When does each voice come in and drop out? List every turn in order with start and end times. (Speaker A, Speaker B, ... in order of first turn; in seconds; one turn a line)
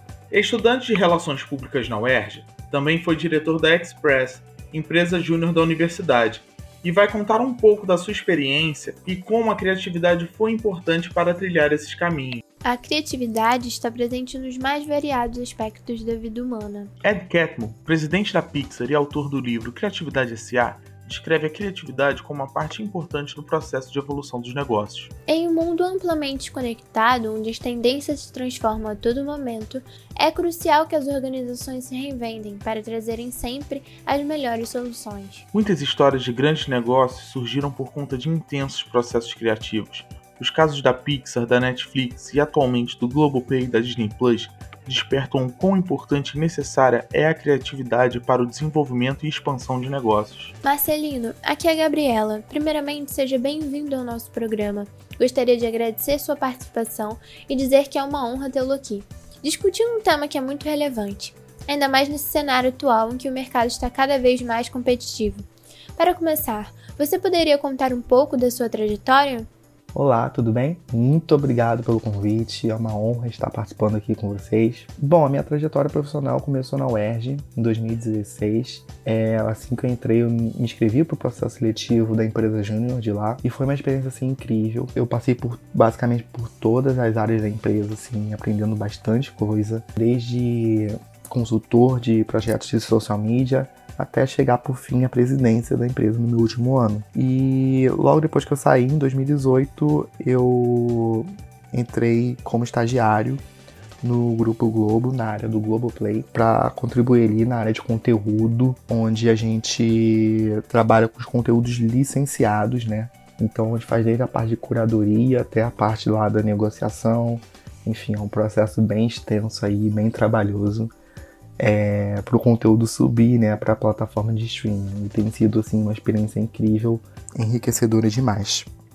Speaker A: 0.3-12.4
Speaker B: 12.6-16.9
Speaker A: 17.0-25.1
Speaker B: 25.3-35.5
Speaker A: 35.5-50.5
Speaker B: 50.6-69.5
Speaker C: 69.9-103.4
Speaker C: 104.0-120.9
Speaker C: 121.6-128.7